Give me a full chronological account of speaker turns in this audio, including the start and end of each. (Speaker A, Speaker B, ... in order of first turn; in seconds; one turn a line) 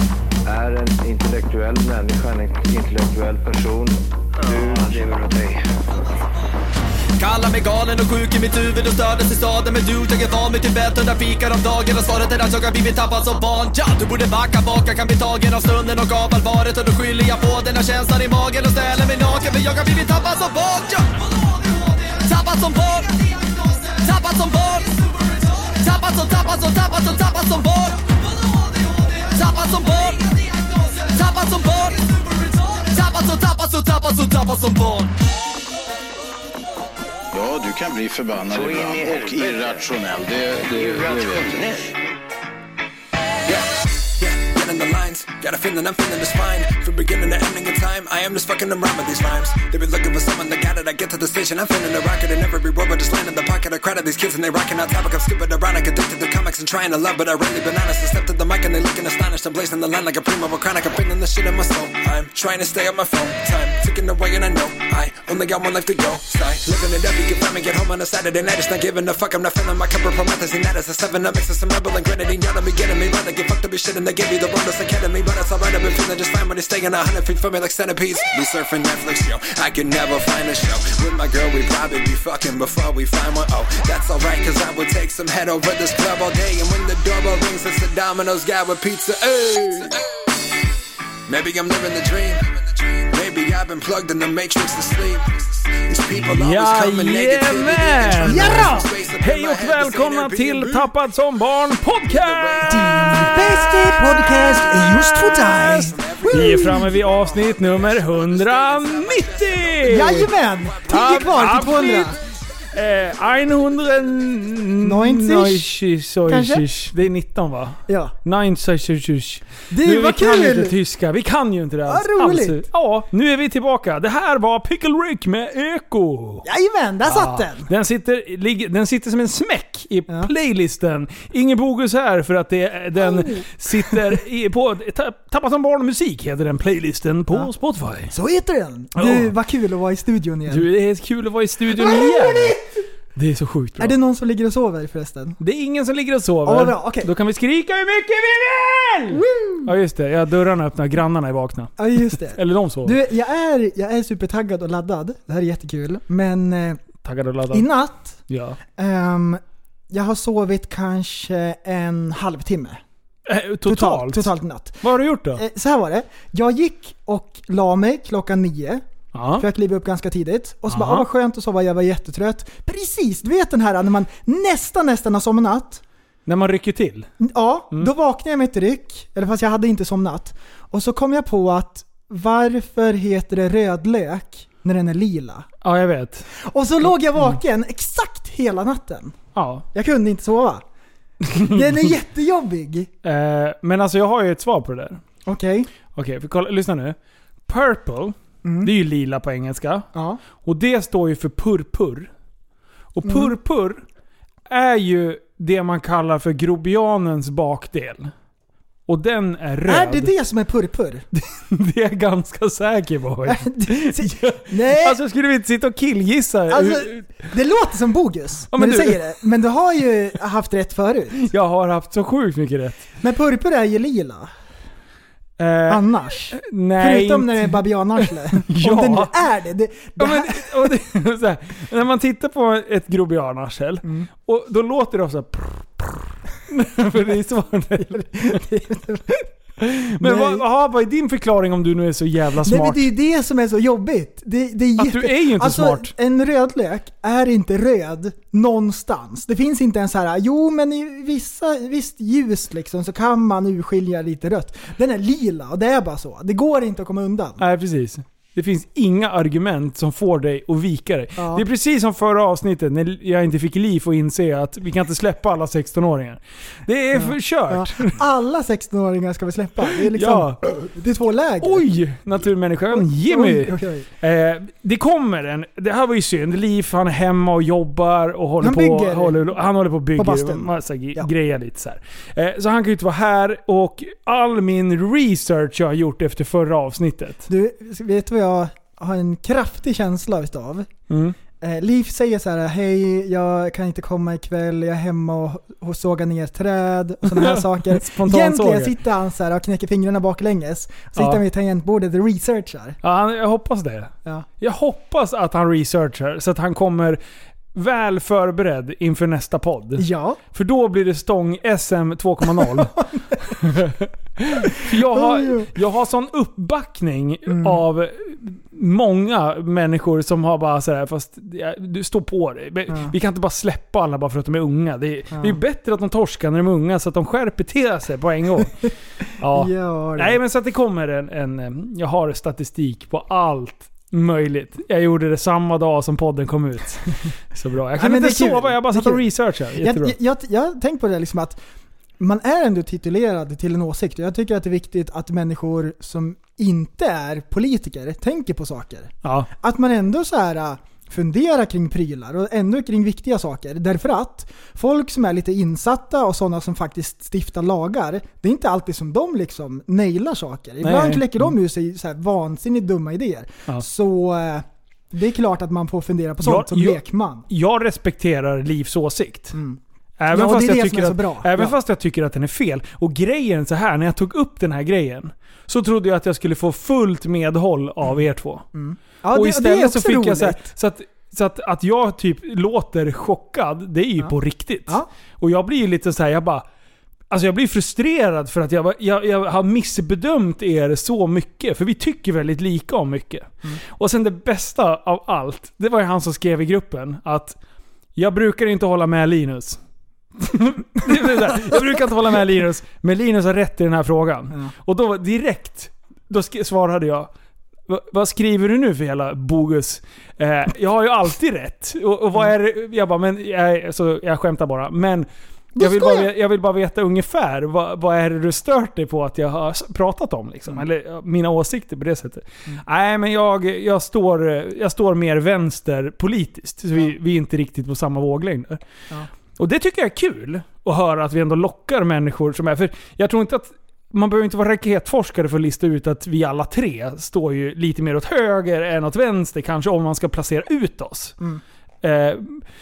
Speaker A: 0.5-5.6
Speaker B: 4.4-5.0
Speaker B: 7.2-35.1
Speaker C: 37.3-41.8
Speaker A: 38.5-39.9
Speaker A: 40.8-41.8
Speaker D: 43.5-90.3
Speaker D: 91.3-100.8
Speaker E: 96.1-103.8
Speaker F: 98.3-98.9
Speaker D: 102.1-112.1
Speaker F: 102.7-106.9
Speaker E: 104.7-110.3
Speaker F: 109.8-112.2
Speaker E: 110.9-112.2
Speaker E: 112.7-126.4
Speaker F: 114.8-115.7
Speaker F: 116.3-116.7
Speaker F: 117.9-118.1
Speaker F: 119.7-120.8
Speaker F: 121.8-122.7
Speaker F: 126.4-127.7
Speaker E: 127.0-138.1
Speaker F: 133.0-134.2
Speaker F: 138.1-140.7
Speaker E: 139.0-139.3
Speaker E: 140.5-142.6
Speaker F: 141.8-142.7
Speaker E: 143.2-144.0
Speaker F: 143.8-145.4
Speaker E: 145.4-153.0
Speaker F: 146.4-147.1
Speaker F: 149.1-149.7
Speaker F: 151.8-156.8
Speaker E: 157.0-157.7
Speaker F: 157.5-158.2
Speaker E: 158.3-158.6
Speaker F: 158.8-162.8
Speaker E: 163.2-165.4
Speaker F: 163.7-168.8
Speaker E: 169.1-169.5
Speaker F: 169.3-175.8
Speaker E: 170.7-171.1
Speaker E: 176.2-177.1
Speaker F: 177.2-185.5
Speaker E: 185.6-186.3
Speaker F: 186.4-189.2
Speaker E: 186.8-187.4
Speaker E: 189.3-189.7
Speaker F: 189.7-190.6
Speaker E: 191.2-191.8
Speaker F: 191.3-192.9
Speaker E: 193.0-195.0
Speaker F: 195.2-195.7
Speaker E: 195.9-199.9
Speaker F: 198.4-198.7
Speaker F: 199.9-200.2
Speaker E: 200.4-202.1
Speaker E: 202.9-203.8
Speaker F: 203.0-203.3
Speaker E: 204.5-208.1
Speaker E: 208.9-210.1
Speaker F: 209.7-211.1
Speaker E: 211.1-217.2
Speaker F: 213.2-215.0
Speaker F: 216.5-221.3
Speaker E: 218.5-219.0
Speaker E: 221.2-222.8
Speaker F: 223.0-224.3
Speaker E: 225.4-229.2
Speaker F: 225.7-230.7
Speaker E: 230.0-238.4
Speaker F: 233.8-234.1
Speaker F: 237.9-239.2
Speaker E: 239.6-242.9
Speaker F: 240.0-240.4
Speaker F: 242.4-257.4
Speaker E: 244.8-245.9
Speaker E: 257.4-268.0
Speaker F: 261.2-261.4
Speaker F: 266.9-271.6
Speaker E: 269.7-270.4
Speaker E: 271.4-287.2
Speaker F: 272.7-273.9
Speaker F: 278.4-279.4
Speaker F: 279.9-281.1
Speaker F: 287.3-290.7
Speaker E: 290.9-291.2
Speaker F: 291.4-302.8
Speaker E: 297.0-298.8
Speaker E: 300.9-301.2
Speaker E: 302.8-307.0
Speaker E: 307.5-328.7
Speaker F: 309.8-310.2
Speaker F: 314.6-315.5
Speaker F: 317.3-317.6
Speaker F: 325.1-325.4
Speaker E: 329.2-339.9
Speaker F: 329.3-330.2
Speaker F: 337.8-339.1
Speaker F: 339.6-341.4
Speaker F: 342.0-367.2
Speaker E: 349.0-349.3
Speaker E: 360.6-361.3
Speaker E: 366.2-369.4
Speaker F: 369.3-369.6
Speaker E: 370.0-378.5
Speaker F: 370.1-371.6
Speaker F: 378.5-380.5
Speaker E: 379.1-386.4
Speaker E: 387.1-397.4
Speaker E: 397.9-399.6
Speaker E: 400.2-407.1
Speaker E: 407.7-428.6
Speaker F: 415.5-416.1
Speaker E: 429.4-441.1
Speaker E: 441.8-442.4